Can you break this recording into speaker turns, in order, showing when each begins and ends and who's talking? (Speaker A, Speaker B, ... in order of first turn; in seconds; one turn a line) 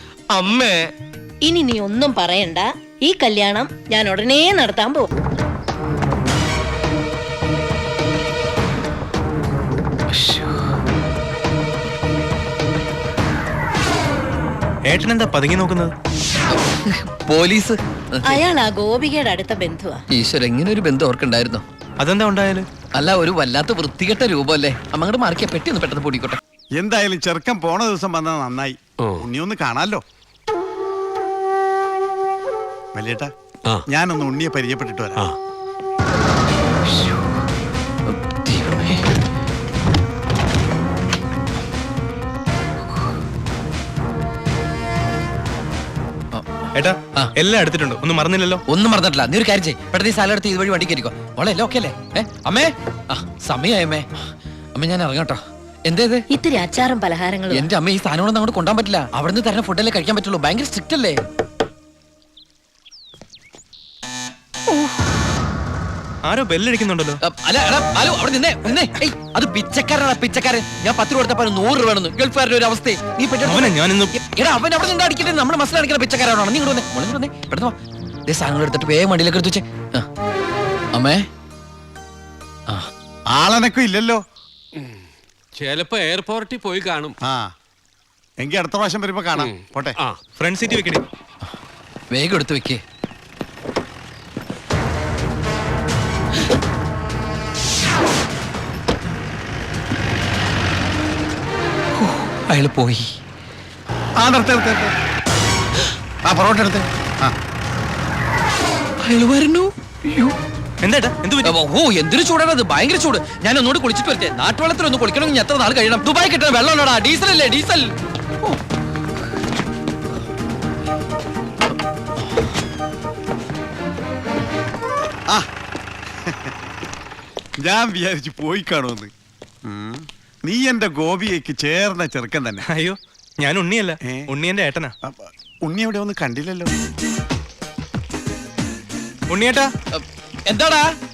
Speaker A: 0.3-0.9
Speaker B: 1.4-5.1
Speaker A: 10.1-10.5
Speaker C: 14.9-15.9
Speaker A: 16.5-18.4
Speaker B: 18.3-20.0
Speaker A: 20.1-21.6
Speaker C: 22.0-22.7
Speaker A: 22.9-26.4
Speaker D: 26.8-30.0
Speaker E: 29.0-29.3
Speaker D: 33.0-33.3
Speaker D: 33.9-35.2
Speaker A: 36.9-37.2
Speaker A: 38.1-39.0
Speaker C: 46.7-48.6
Speaker A: 48.7-54.1
Speaker A: 54.8-56.2
Speaker B: 56.3-57.7
Speaker A: 57.5-61.2
Speaker C: 66.3-67.2
Speaker A: 67.2-77.8
Speaker C: 73.4-74.2
Speaker A: 78.3-80.1
Speaker A: 80.9-81.3
Speaker D: 83.3-84.2
Speaker E: 84.8-87.2
Speaker D: 88.4-90.0
Speaker E: 89.4-90.2
Speaker C: 90.4-91.0
Speaker A: 92.1-92.8
Speaker A: 102.0-103.1
Speaker D: 104.2-104.9
Speaker D: 106.3-107.3
Speaker A: 109.0-110.4
Speaker C: 110.8-111.5
Speaker A: 111.4-117.9
Speaker A: 121.7-122.3
Speaker D: 126.3-126.5
Speaker D: 127.6-129.1
Speaker D: 129.7-132.7
Speaker C: 132.7-134.9
Speaker D: 134.0-134.3
Speaker D: 135.0-136.7
Speaker C: 139.3-139.7
Speaker A: 139.9-140.9